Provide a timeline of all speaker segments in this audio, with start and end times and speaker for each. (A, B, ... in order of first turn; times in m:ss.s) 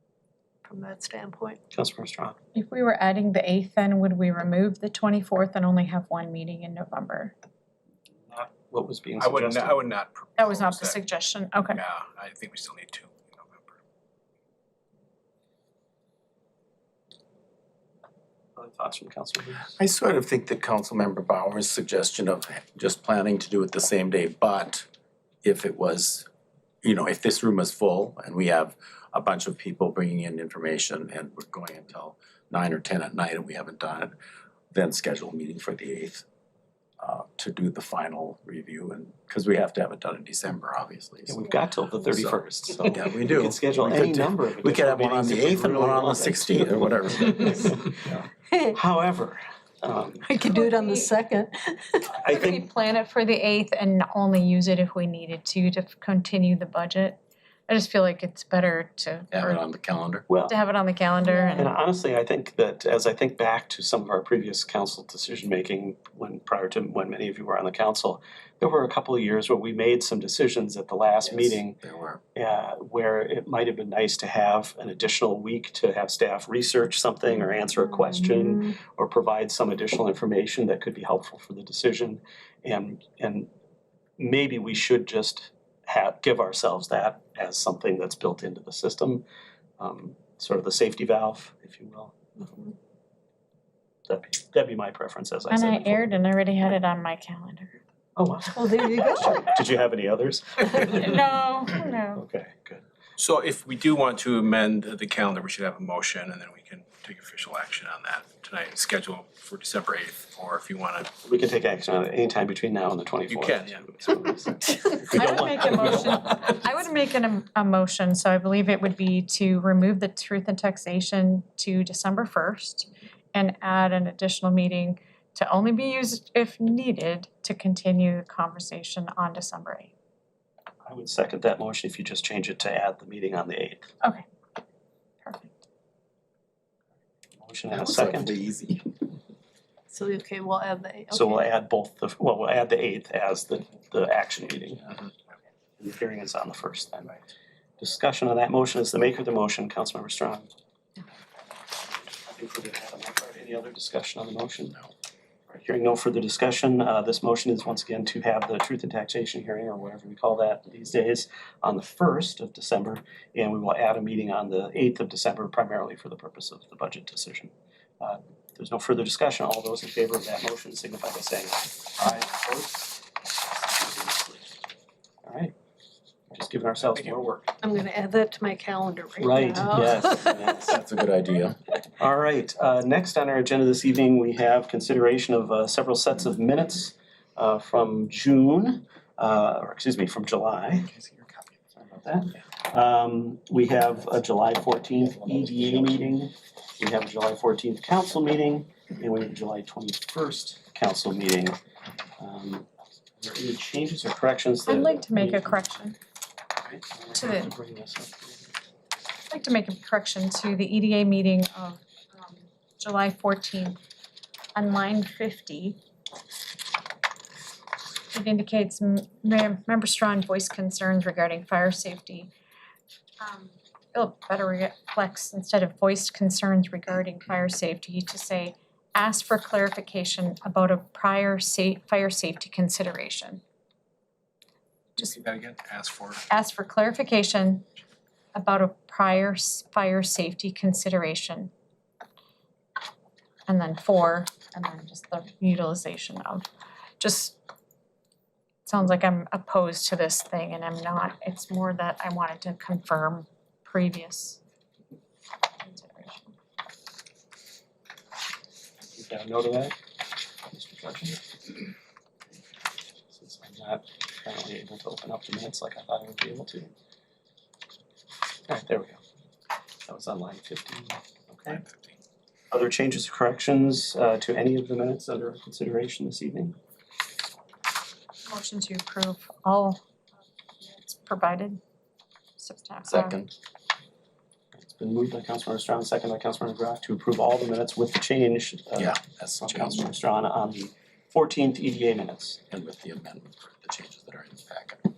0:00.6-0:01.6 A
0:01.7-0:02.4 B
0:02.5-0:07.3 C
0:08.3-0:09.8 B
0:09.2-0:11.0 D
0:10.4-0:11.8 C
0:11.6-0:13.8 D
0:18.6-0:19.7 B
0:19.7-0:24.9 E
0:25.4-0:26.3 E
0:26.8-0:34.2 E
0:34.7-0:36.2 E
0:37.0-0:41.4 E
0:41.3-0:50.4 B
0:42.0-0:48.0 E
0:48.5-0:48.8 A
0:50.2-0:52.2 A
0:50.5-0:51.1 C
0:52.2-0:52.7 B
0:52.2-0:59.7 C
0:59.3-1:00.3 E
1:00.3-1:00.5 B
1:00.4-1:01.7 C
1:01.2-1:01.7 A
1:01.6-1:11.8 B
1:11.3-1:12.2 E
1:12.4-1:23.5 B
1:18.1-1:18.8 A
1:24.2-1:29.2 B
1:29.8-1:32.3 B
1:32.4-1:32.7 A
1:34.1-1:36.1 B
1:35.5-1:37.8 C
1:38.2-1:41.2 B
1:38.5-1:39.4 A
1:40.9-1:42.2 C
1:42.2-1:42.8 B
1:43.2-1:51.1 D
1:51.2-1:56.5 B
1:53.3-1:55.0 D
1:55.1-2:09.9 C
2:10.8-2:13.9 B
2:15.2-2:15.6 C
2:17.4-2:18.3 B
2:17.7-2:19.0 E
2:19.9-2:21.5 A
2:21.1-2:24.9 B
2:25.8-2:27.2 B
2:27.8-2:30.5 B
2:32.3-2:34.8 B
2:35.5-2:54.4 B
2:55.2-2:55.5 B
2:56.3-2:57.3 B
2:56.9-2:57.5 D
2:57.6-3:00.4 A
2:59.2-3:00.8 B
3:00.5-3:01.6 E
3:02.0-3:10.9 B
3:11.8-3:21.6 B
3:22.2-3:22.6 B
3:23.2-3:25.8 B
3:24.6-3:26.0 C
3:26.6-3:28.6 B
3:27.2-3:27.5 C
3:29.3-3:33.8 C
3:34.6-3:35.8 C
3:38.1-3:42.3 C
3:43.2-3:53.4 C
3:55.0-3:56.2 D
3:56.3-3:57.7 C
3:58.3-4:01.5 C
4:03.5-4:06.5 C
4:07.0-4:07.4 C
4:08.6-4:14.4 C
4:15.6-4:16.3 C
4:18.9-4:19.8 B
4:20.5-4:21.2 B
4:23.1-4:26.7 B
4:28.5-4:29.0 B
4:29.9-4:31.6 B
4:31.5-4:31.9 D
4:32.5-4:36.6 B
4:38.3-4:39.8 C
4:40.6-4:41.6 C
4:42.4-4:43.2 C
4:42.9-4:43.3 E
4:44.6-4:52.4 B
4:48.8-4:49.8 E
4:52.5-4:54.8 E